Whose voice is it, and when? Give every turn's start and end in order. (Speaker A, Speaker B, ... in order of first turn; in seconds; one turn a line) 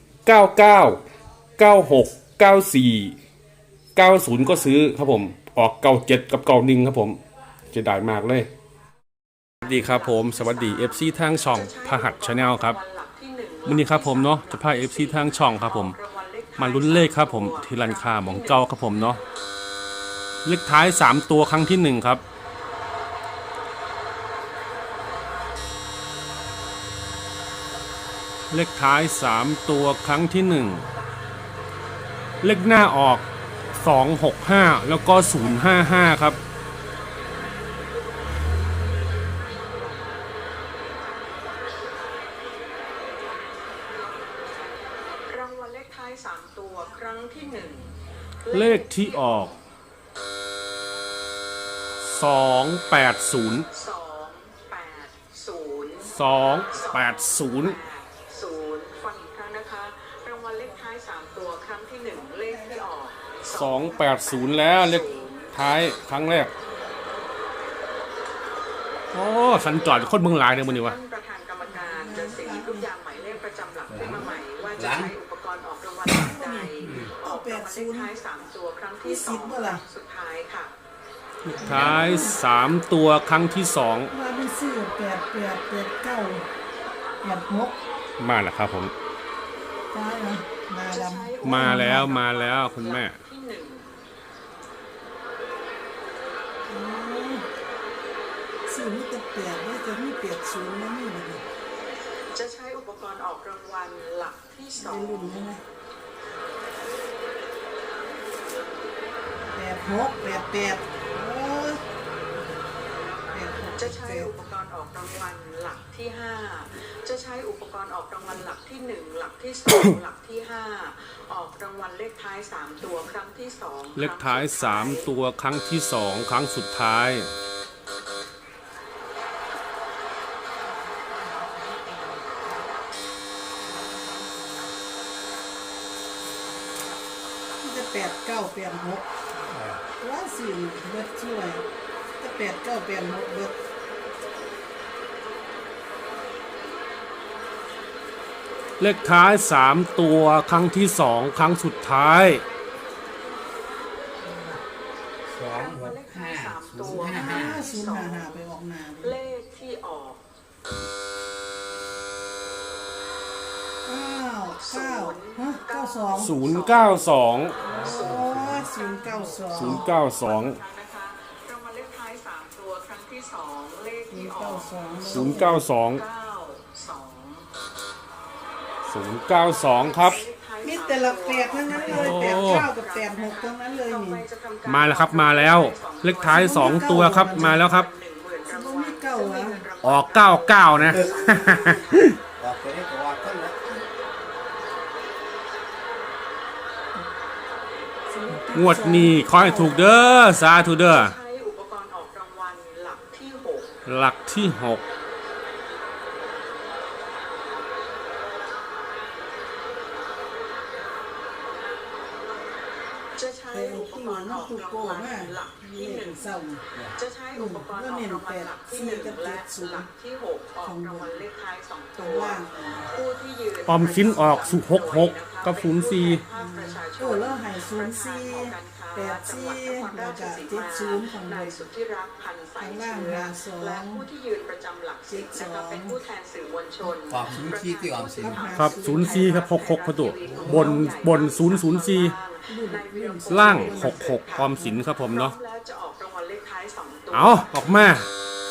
Speaker A: 0.3-1.0
Speaker A: 1.6-3.1
Speaker A: 4.0-7.2
Speaker A: 7.7-8.5
Speaker A: 9.6-12.8
Speaker B: 9.7-18.7
Speaker A: 13.7-16.0
Speaker A: 16.6-19.2
Speaker A: 20.4-22.2
Speaker A: 28.5-30.9
Speaker A: 32.4-33.2
Speaker A: 33.8-36.4
Speaker B: 45.3-49.5
Speaker A: 48.5-49.5
Speaker A: 52.0-53.7
Speaker B: 53.7-56.1
Speaker A: 56.0-57.8
Speaker B: 56.7-65.5
Speaker C: 62.5-62.8
Speaker A: 63.4-66.5
Speaker A: 69.1-71.0
Speaker B: 70.2-80.7
Speaker C: 71.7-72.9
Speaker D: 73.9-75.1
Speaker C: 76.1-78.1
Speaker D: 76.8-77.1
Speaker C: 79.0-79.8
Speaker D: 81.5-82.2
Speaker A: 81.6-84.1
Speaker C: 81.7-82.4
Speaker C: 84.1-86.4
Speaker C: 87.2-87.8
Speaker A: 88.2-88.9
Speaker C: 89.9-92.1
Speaker B: 90.9-93.9
Speaker A: 91.4-93.2
Speaker C: 96.7-97.4
Speaker C: 98.7-101.4
Speaker B: 102.3-105.3
Speaker C: 104.8-105.6
Speaker C: 109.5-111.8
Speaker C: 113.3-114.3
Speaker B: 113.8-125.1
Speaker A: 123.9-127.3
Speaker C: 137.6-139.0
Speaker D: 139.4-139.8
Speaker C: 140.0-141.6
Speaker C: 142.2-143.6
Speaker A: 148.8-152.4
Speaker D: 155.3-157.6
Speaker B: 155.5-158.4
Speaker C: 156.9-159.2
Speaker B: 159.0-160.2
Speaker C: 163.8-166.3
Speaker B: 164.7-167.0
Speaker A: 166.2-167.5
Speaker B: 167.6-177.5
Speaker D: 167.7-168.7
Speaker C: 167.8-169.9
Speaker A: 169.5-170.6
Speaker C: 174.1-175.6
Speaker A: 175.0-176.0
Speaker A: 178.9-180.2
Speaker B: 179.8-192.2
Speaker C: 180.6-184.2
Speaker A: 181.8-182.7
Speaker A: 184.7-187.9
Speaker C: 186.3-187.6
Speaker C: 188.5-189.6
Speaker A: 189.8-192.2
Speaker D: 190.8-191.3
Speaker D: 192.4-193.7
Speaker C: 198.1-199.9
Speaker A: 198.5-201.2
Speaker B: 200.7-203.8
Speaker A: 203.8-204.8
Speaker B: 213.2-216.3
Speaker C: 213.5-216.6
Speaker B: 217.0-247.5
Speaker C: 217.3-219.9
Speaker C: 220.6-221.2
Speaker C: 222.0-222.9
Speaker A: 223.7-226.2
Speaker C: 226.3-231.6
Speaker C: 232.6-234.0
Speaker C: 235.1-236.0
Speaker D: 237.1-238.5
Speaker C: 238.2-239.4
Speaker A: 238.6-242.2
Speaker D: 240.2-240.8
Speaker C: 240.3-241.0
Speaker C: 242.5-244.0
Speaker A: 243.3-245.3
Speaker A: 247.1-248.1